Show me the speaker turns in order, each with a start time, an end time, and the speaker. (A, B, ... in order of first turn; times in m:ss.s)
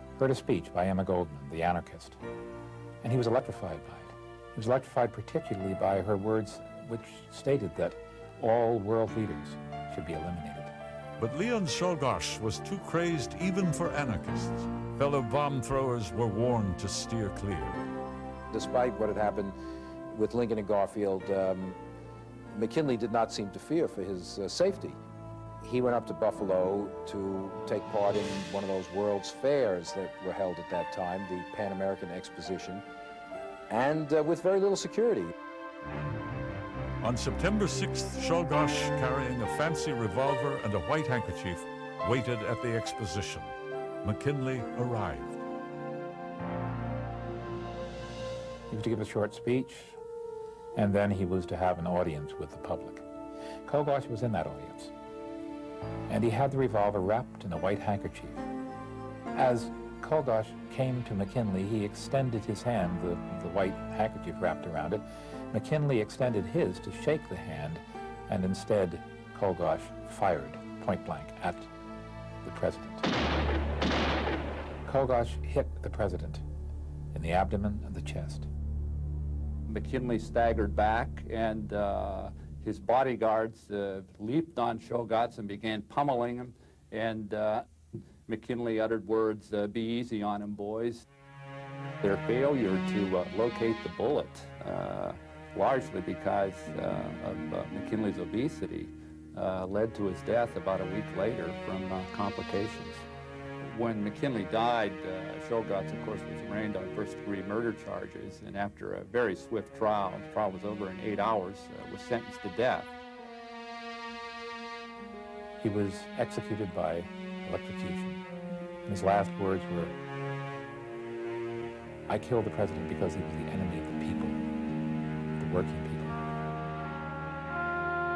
0:00.2-0:02.2 A
0:03.0-0:10.7 A
0:11.2-0:17.8 B
0:18.5-0:19.6 C
0:20.1-0:21.8 C
0:22.5-0:25.0 C
0:25.6-0:32.8 C
0:33.7-0:35.3 C
0:37.0-0:43.5 B
0:44.0-0:45.4 B
0:48.7-0:50.0 A
0:50.8-0:53.0 A
0:53.6-0:54.9 A
0:56.1-0:58.4 A
0:59.3-1:11.7 A
1:12.4-1:13.1 A
1:14.8-1:16.4 A
1:17.1-1:18.4 A
1:19.7-1:27.6 D
1:28.3-1:31.0 D
1:32.0-1:43.1 D
1:43.6-1:52.9 D
1:55.6-1:58.2 A
1:58.8-1:59.9 A
2:02.1-2:04.4 A
2:05.4-2:06.2 A